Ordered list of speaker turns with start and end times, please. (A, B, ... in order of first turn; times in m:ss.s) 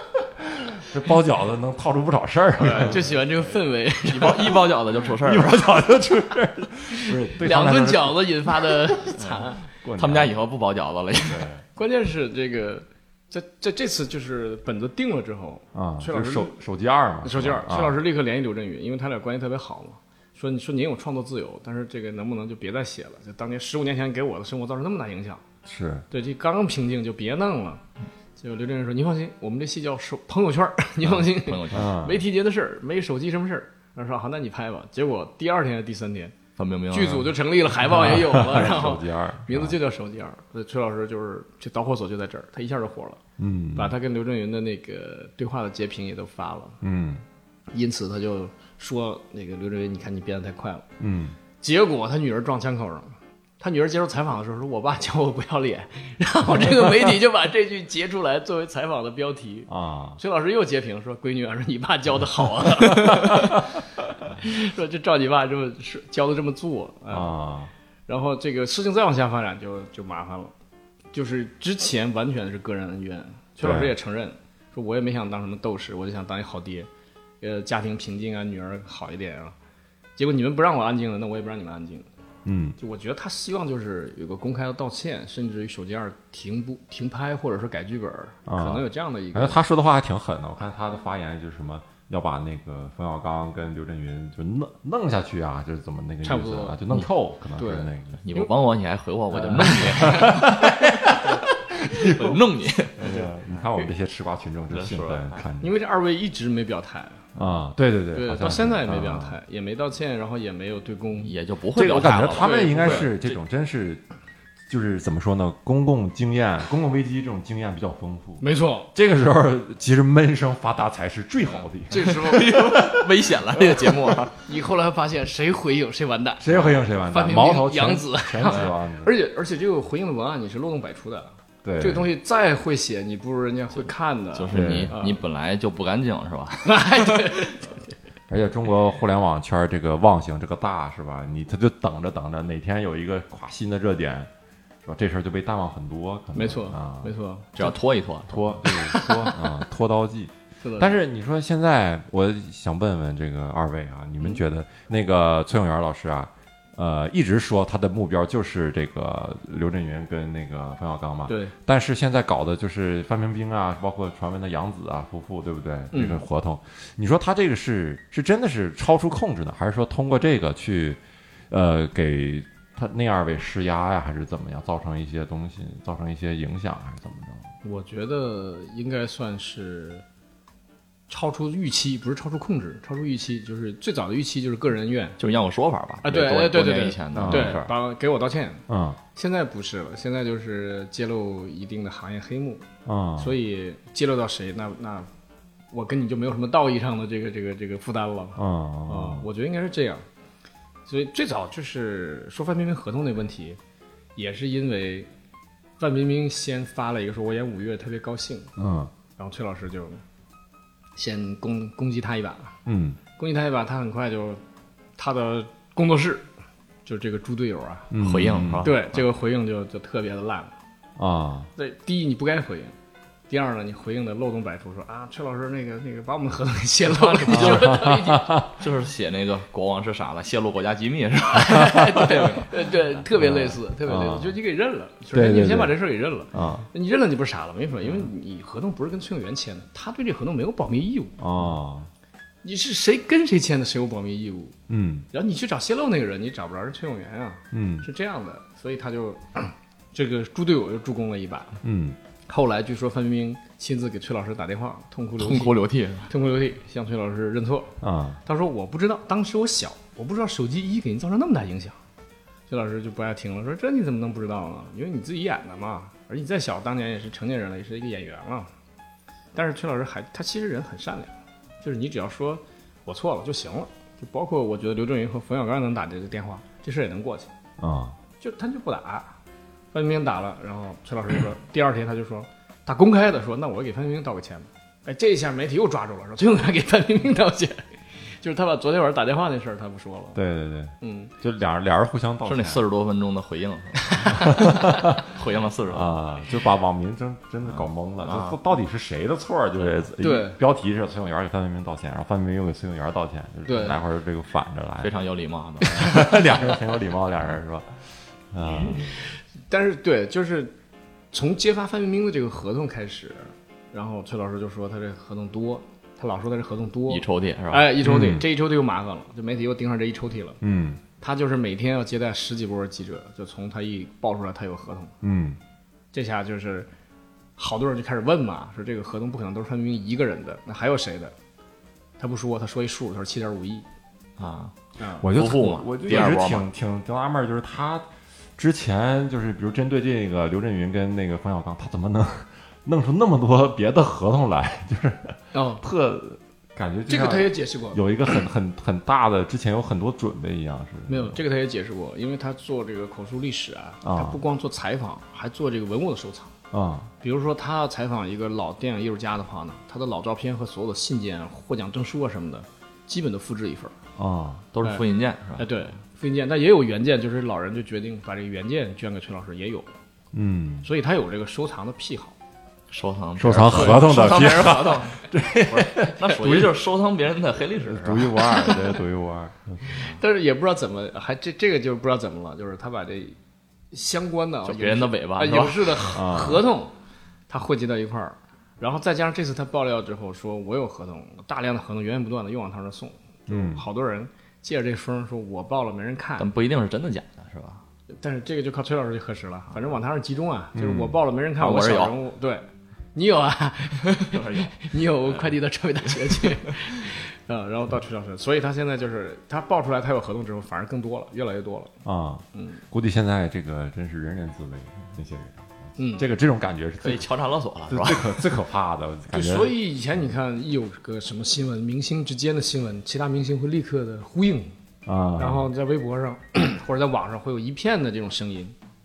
0:00.7-0:03.2 A
0:02.6-0:04.6 B
0:04.0-0:05.5 C
0:05.2-0:09.1 A
0:07.0-0:09.6 B
0:09.8-0:10.4 A
0:10.0-0:11.5 C
0:11.3-0:11.6 A
0:11.8-0:16.5 B
0:15.7-0:18.0 A
0:17.2-0:25.4 B
0:25.6-0:26.0 A
0:26.1-0:27.8 B
0:28.4-0:36.4 B
0:31.1-0:31.9 C
0:31.7-0:32.2 A
0:36.6-0:37.3 C
0:36.9-0:43.2 B
0:37.8-0:39.8 A
0:43.4-0:43.9 A
0:43.8-0:46.8 B
0:46.8-0:47.2 A
0:47.7-0:50.9 B
0:51.0-0:51.4 A
0:51.6-1:07.3 B
0:59.7-1:00.2 A
1:02.9-1:03.6 A
1:07.1-1:07.7 A
1:08.1-1:10.5 B
1:11.1-1:16.9 B
1:13.6-1:13.9 A
1:17.4-1:19.6 B
1:20.2-1:22.1 B
1:22.4-1:22.8 A
1:22.8-1:29.6 B
1:28.4-1:38.2 A
1:36.2-1:36.8 B
1:37.6-1:38.5 B
1:38.2-1:40.7 C
1:39.3-1:40.3 B
1:39.5-1:42.4 A
1:42.0-1:43.1 C
1:43.0-1:45.7 A
1:43.1-1:43.9 B
1:44.7-1:45.4 C
1:45.6-1:47.2 B
1:47.3-1:49.4 A
1:48.1-1:51.3 B
1:51.2-1:53.4 C
1:51.8-1:54.0 A
1:52.0-1:53.1 B
1:54.7-1:58.4 A
1:58.4-1:58.9 B
1:58.9-2:03.1 A
2:01.9-2:02.8 B
2:01.9-2:04.3 C
2:03.6-2:15.2 B
2:06.4-2:09.1 A
2:11.6-2:12.1 A
2:14.3-2:17.5 C
2:14.5-2:14.9 A
2:16.6-2:17.7 B
2:18.3-2:24.3 A
2:24.8-2:27.1 A
2:26.3-2:27.8 B
2:27.6-2:28.6 C
2:28.3-2:51.0 A
2:28.7-2:29.3 B
2:30.6-2:30.9 B
2:41.3-2:41.5 B
2:45.9-2:46.2 B
2:51.5-2:57.5 A
2:57.6-3:00.0 B
3:01.1-3:05.2 B
3:05.2-3:07.7 C
3:06.0-3:12.7 B
3:07.1-3:07.6 A
3:08.7-3:09.0 A
3:12.8-3:13.3 A
3:13.2-3:15.1 B
3:15.7-3:20.0 B
3:18.4-3:19.3 A
3:20.9-3:23.6 B
3:24.2-3:25.1 B
3:25.8-3:28.5 B
3:28.6-3:28.9 A
3:29.2-3:30.0 B
3:31.0-3:32.6 B
3:32.7-3:33.0 A
3:33.2-3:34.4 B
3:35.0-3:36.3 B
3:36.8-3:37.9 B
3:37.9-3:38.7 A
3:38.0-3:39.1 C
3:38.6-3:40.6 B
3:41.0-3:41.5 A
3:41.6-3:42.7 B
3:43.3-3:48.4 B
3:46.9-3:47.9 C
3:47.3-3:48.5 A
3:48.5-3:52.5 C
3:51.4-4:01.2 B
3:53.2-3:54.3 A
3:55.1-3:55.8 A
3:56.3-3:56.7 A
4:01.2-4:01.9 A
4:02.4-4:04.6 B
4:04.7-4:05.1 A
4:05.1-4:11.6 B
4:07.5-4:07.8 A
4:11.6-4:12.0 A
4:12.3-4:15.6 B
4:15.2-4:16.1 C
4:16.1-4:21.8 B
4:17.8-4:18.2 A
4:22.5-4:28.5 B
4:29.3-4:37.3 B
4:37.6-4:38.0 A
4:38.2-4:39.2 B
4:39.7-4:47.7 B
4:48.2-4:50.2 B
4:50.2-4:52.6 A
4:50.8-4:51.1 B
4:52.2-4:55.9 C
4:54.1-4:55.0 A
4:55.7-5:04.9 A
4:57.4-4:58.4 C
5:00.0-5:00.4 B
5:03.4-5:03.8 B
5:04.8-5:06.4 C
5:05.6-5:08.9 A
5:08.5-5:10.6 B
5:11.1-5:20.4 B
5:16.9-5:17.7 C
5:17.8-5:18.2 A
5:20.4-5:20.8 A
5:21.0-5:24.9 B
5:25.0-5:25.4 A
5:25.9-5:26.7 B
5:27.4-5:31.2 B
5:32.0-5:33.6 B
5:34.2-5:34.6 C
5:34.8-5:35.1 B
5:35.0-5:51.2 A
5:35.1-5:36.4 C
5:45.3-5:45.6 B
5:46.9-5:48.2 B
5:50.9-5:56.3 B
5:53.8-5:54.2 A
5:56.5-5:56.9 A
5:57.0-6:03.8 B
6:04.0-6:04.4 A
6:04.5-6:05.5 C
6:05.4-6:09.7 B
6:10.1-6:10.7 A
6:10.6-6:12.2 B
6:12.7-6:18.3 C
6:13.2-6:16.6 A
6:17.6-6:19.8 A
6:19.7-6:23.2 B
6:23.7-6:26.8 B
6:24.4-6:25.9 C
6:25.9-6:26.4 A
6:27.3-6:36.3 B
6:33.3-6:33.6 A
6:36.2-6:37.6 C
6:38.0-6:51.7 B
6:40.6-6:41.0 A
6:41.4-6:42.0 C
6:43.9-6:45.3 C
6:46.0-6:46.6 C
6:51.8-6:57.1 A
6:52.3-6:52.6 B
6:55.8-6:56.1 B
6:56.8-6:58.3 C
6:57.7-6:59.5 A
6:59.1-7:04.5 B
7:04.8-7:05.5 A
7:05.2-7:08.6 B